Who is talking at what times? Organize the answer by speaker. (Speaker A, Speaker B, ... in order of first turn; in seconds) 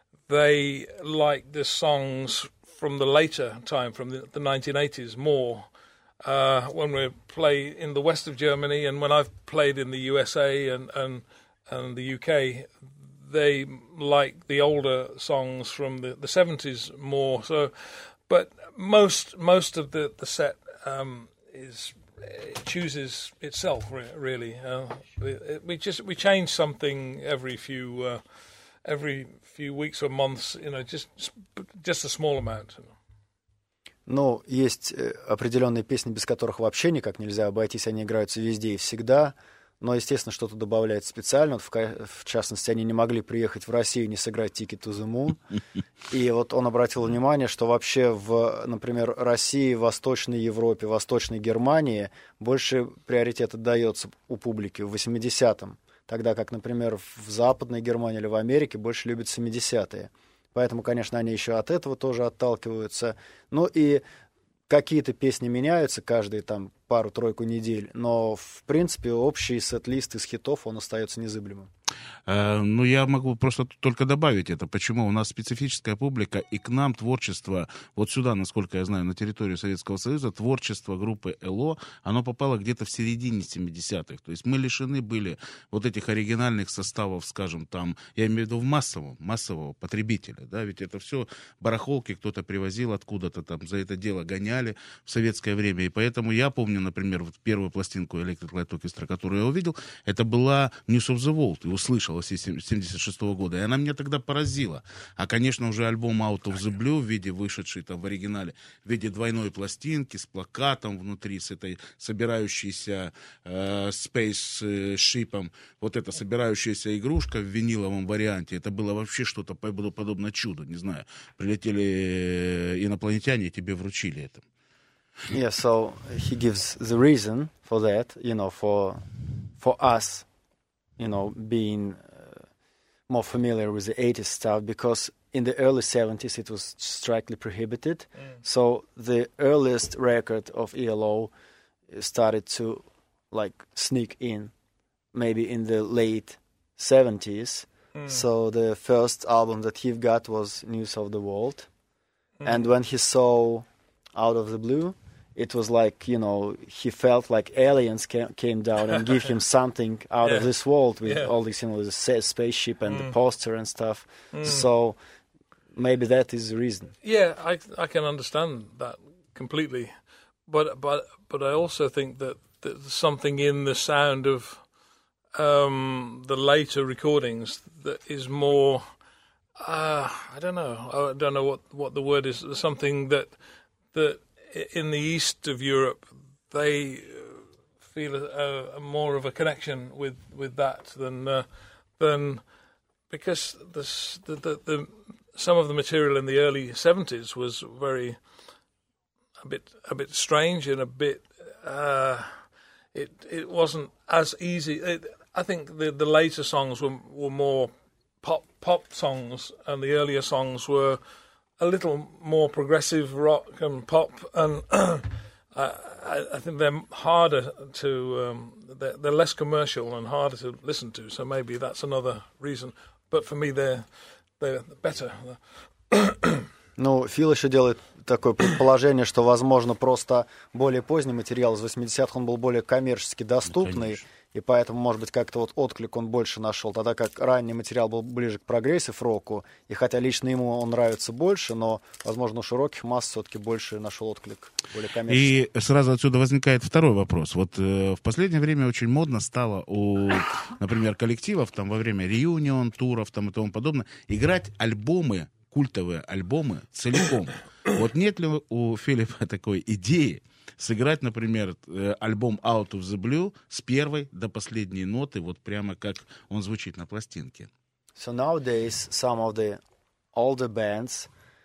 Speaker A: 0.3-5.7, 6.2-12.7, 13.2-28.2, 28.8-32.9, 147.9-148.2, 160.2-160.5, 161.0-161.3, 162.9-163.2, 164.3-164.7, 167.0-169.9, 170.5-174.6, 175.3-178.8, 179.6-183.3, 183.9-191.5, 192.0-192.4, 193.1-198.2, 199.4-207.7, 208.2-211.0, 211.6-225.4, 225.9-226.5
Speaker B: 34.1-45.4, 46.1-64.0, 64.7-71.7, 125.3-129.1, 129.6-130.3, 131.0-132.4, 133.1-141.3, 141.9-144.5, 145.1-151.7, 152.4-165.0, 165.7-166.9, 226.8-245.3, 268.0-269.6, 270.1-271.1
Speaker C: 72.3-124.4, 233.5-234.0, 245.1-267.5